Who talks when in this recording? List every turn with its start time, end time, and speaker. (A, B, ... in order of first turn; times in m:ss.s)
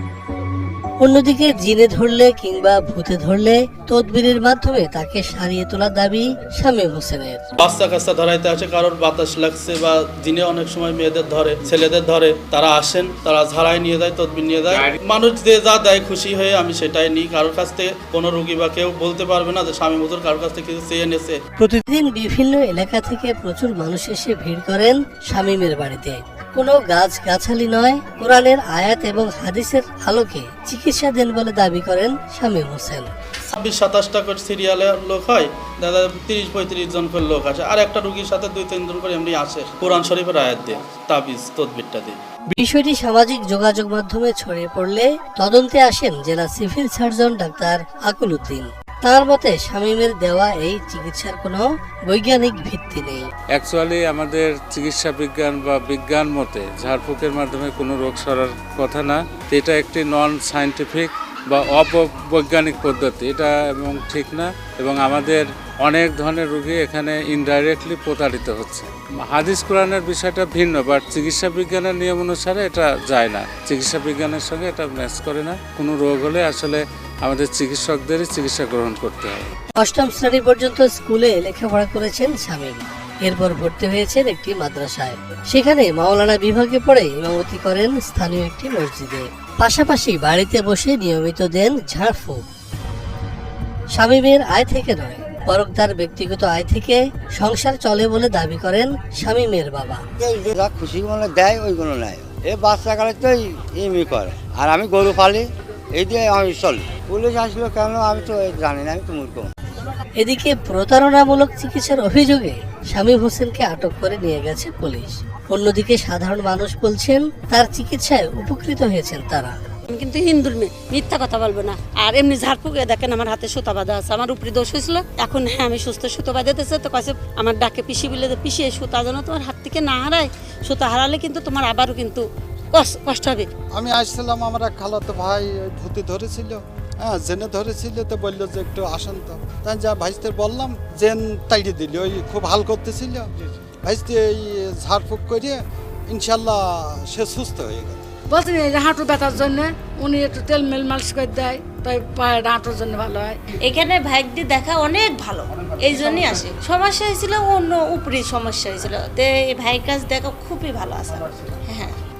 0:01.0-0:07.4 A
0:07.6-0:21.4 B
0:21.6-0:33.1 A
0:33.5-0:42.2 B
0:42.5-0:53.3 A
0:53.5-1:19.5 C
1:19.8-1:32.4 A
1:34.0-1:40.0 A
1:40.2-1:49.5 D
1:50.2-1:59.5 A
1:59.9-2:13.5 E
2:13.7-2:23.3 F
2:23.8-2:28.1 F
2:28.3-2:33.4 G
2:33.6-2:42.0 H